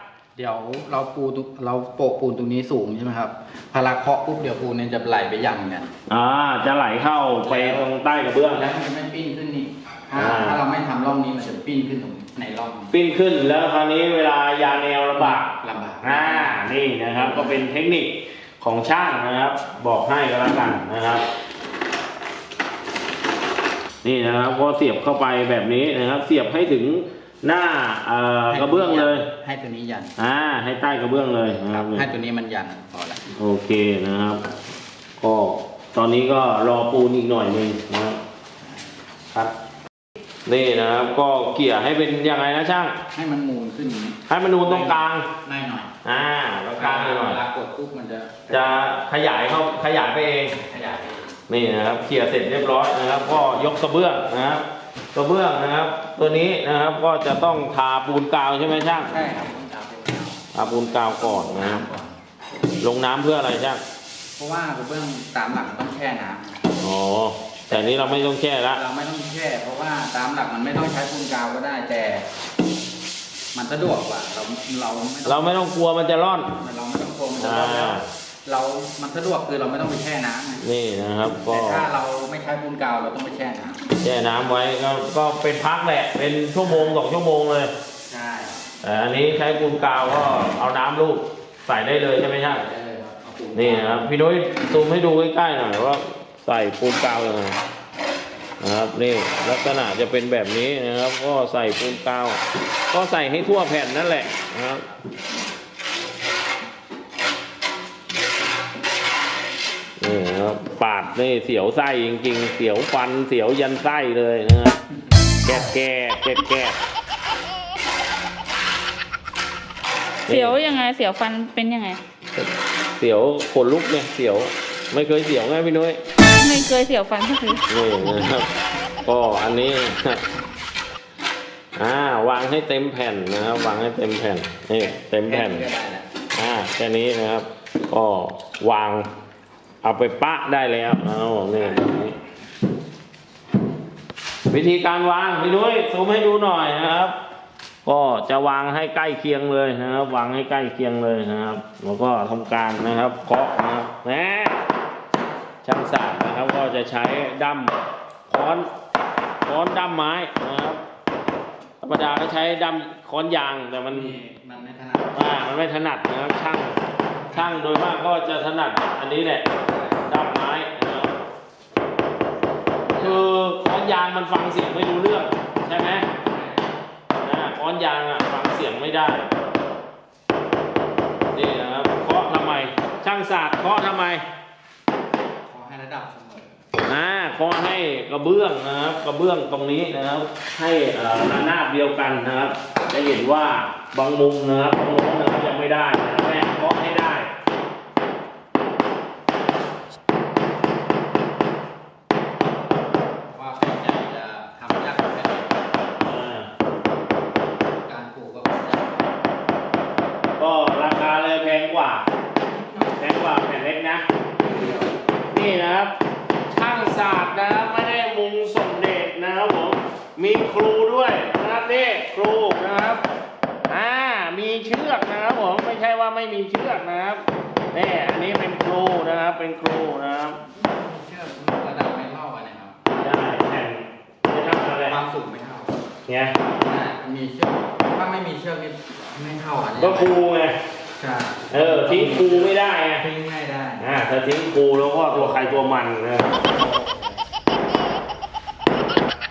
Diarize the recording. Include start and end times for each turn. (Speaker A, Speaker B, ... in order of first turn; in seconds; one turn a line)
Speaker A: 0.3-5.9
Speaker B: 6.1-8.7
Speaker A: 7.4-7.9
Speaker A: 8.5-12.9
Speaker B: 10.2-10.6
Speaker B: 12.9-15.5
Speaker A: 15.2-16.6
Speaker B: 16.0-21.3
Speaker A: 17.2-17.5
Speaker B: 24.0-29.3
Speaker A: 28.5-30.1
Speaker B: 30.2-32.1
Speaker A: 31.7-33.3
Speaker B: 33.3-34.5
Speaker B: 35.2-38.2
Speaker A: 38.6-38.9
Speaker B: 40.5-43.0
Speaker A: 43.1-45.9
Speaker B: 44.3-45.3
Speaker B: 46.0-47.4
Speaker A: 46.8-48.8
Speaker B: 48.5-50.6
Speaker A: 50.6-51.3
Speaker B: 51.5-59.1
Speaker A: 59.0-62.2
Speaker B: 60.5-61.9
Speaker B: 62.8-63.8
Speaker A: 64.4-66.6
Speaker B: 66.8-68.8
Speaker A: 67.7-68.2
Speaker A: 68.7-72.3
Speaker A: 73.5-75.7
Speaker B: 75.2-76.5
Speaker A: 76.6-80.7
Speaker B: 77.4-78.1
Speaker B: 80.6-81.9
Speaker A: 81.4-83.8
Speaker B: 84.0-87.7
Speaker A: 86.6-87.0
Speaker A: 88.1-88.6
Speaker B: 88.8-92.6
Speaker A: 92.4-94.1
Speaker B: 93.5-97.6
Speaker B: 98.6-104.9
Speaker B: 110.0-114.8
Speaker B: 115.4-116.8
Speaker B: 120.3-120.6
Speaker C: 120.3-122.0
Speaker B: 123.0-126.0
Speaker C: 126.4-127.6
Speaker B: 127.7-128.5
Speaker B: 129.0-130.2
Speaker B: 131.8-135.7
Speaker A: 134.8-136.1
Speaker B: 136.3-139.1
Speaker B: 139.8-142.2
Speaker B: 144.5-147.1
Speaker B: 147.8-154.6
Speaker B: 155.6-157.7
Speaker B: 158.3-158.7
Speaker B: 159.5-160.8
Speaker B: 161.8-164.2
Speaker A: 163.9-165.4
Speaker B: 165.1-166.8
Speaker A: 167.1-167.7
Speaker B: 167.3-169.5
Speaker A: 169.6-170.1
Speaker B: 170.0-171.1
Speaker A: 172.9-173.3
Speaker B: 172.9-176.1
Speaker A: 176.2-176.7
Speaker B: 177.2-179.3
Speaker B: 181.3-184.2
Speaker A: 185.4-186.6
Speaker B: 186.8-197.3
Speaker A: 203.3-205.8
Speaker B: 206.0-206.5
Speaker A: 207.8-209.2
Speaker B: 210.4-212.0
Speaker A: 212.5-213.4
Speaker B: 213.0-214.1
Speaker A: 214.5-214.9
Speaker B: 215.3-215.9
Speaker B: 216.5-223.0
Speaker B: 223.7-230.4
Speaker A: 230.6-232.8
Speaker B: 232.9-235.0
Speaker A: 234.8-235.8
Speaker B: 236.1-236.4
Speaker A: 236.6-240.2
Speaker B: 239.8-240.6
Speaker A: 241.0-243.8
Speaker B: 241.5-243.1
Speaker B: 243.8-246.4
Speaker A: 245.1-245.6
Speaker A: 246.4-247.2